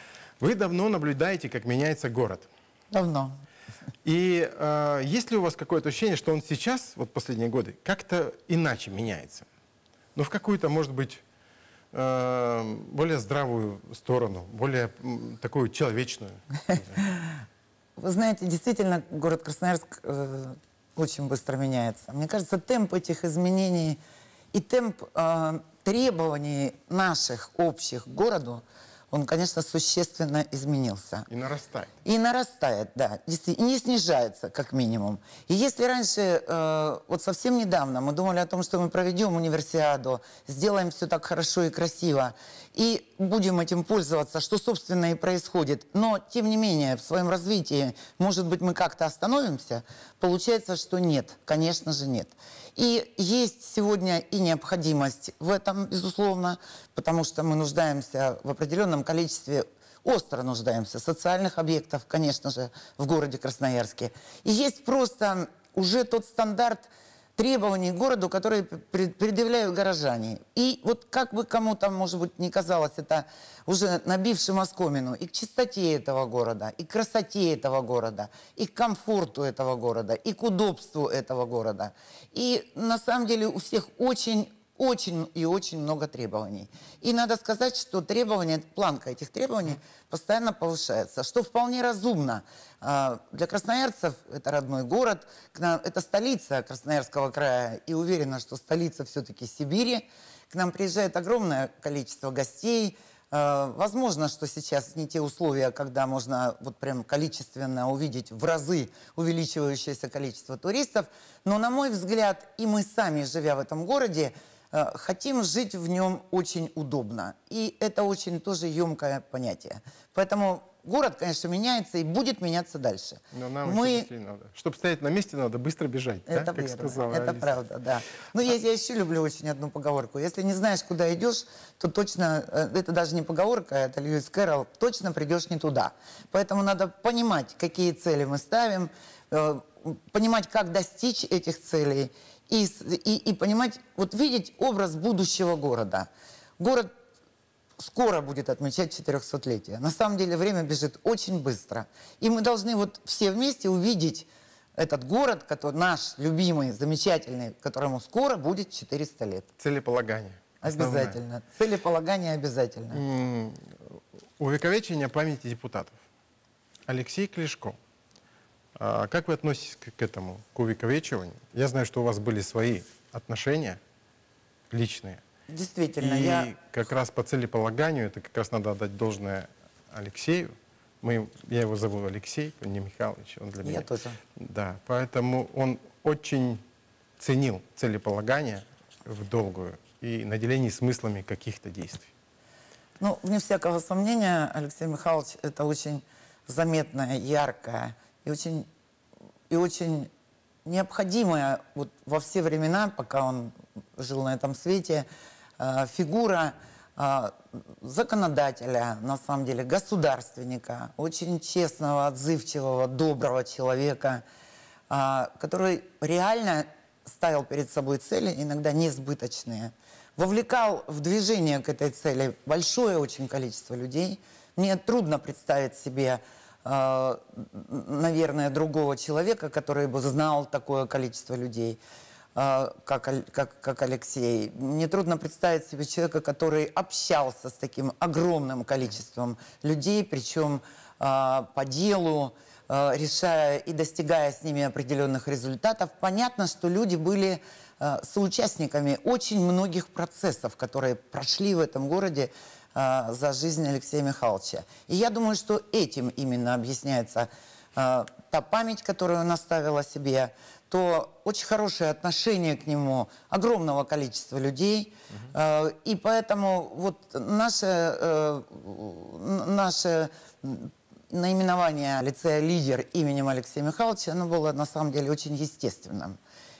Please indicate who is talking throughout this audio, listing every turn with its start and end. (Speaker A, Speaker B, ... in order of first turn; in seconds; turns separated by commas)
Speaker A: 0.4-2.5, Speaker B: 2.9-3.4, Speaker A: 4.0-9.5, Speaker A: 10.1-11.2, Speaker A: 11.9-17.0, Speaker B: 17.0-17.4, Speaker B: 18.0-24.0, Speaker B: 24.5-31.3, Speaker A: 31.3-31.9, Speaker B: 32.0-124.1, Speaker A: 123.3-127.5, Speaker B: 126.3-146.9, Speaker B: 147.8-159.5, Speaker A: 159.6-161.2, Speaker B: 160.6-163.0, Speaker A: 162.9-166.0, Speaker A: 166.9-167.8, Speaker A: 168.8-173.8, Speaker A: 174.7-175.2, Speaker B: 175.5-176.5, Speaker A: 176.0-183.8, Speaker B: 183.6-184.2, Speaker A: 184.4-186.6, Speaker A: 187.2-192.1, Speaker B: 193.0-198.7, Speaker B: 199.5-200.1, Speaker B: 200.6-205.1, Speaker B: 205.6-214.2, Speaker B: 214.9-231.8, Speaker B: 232.3-276.1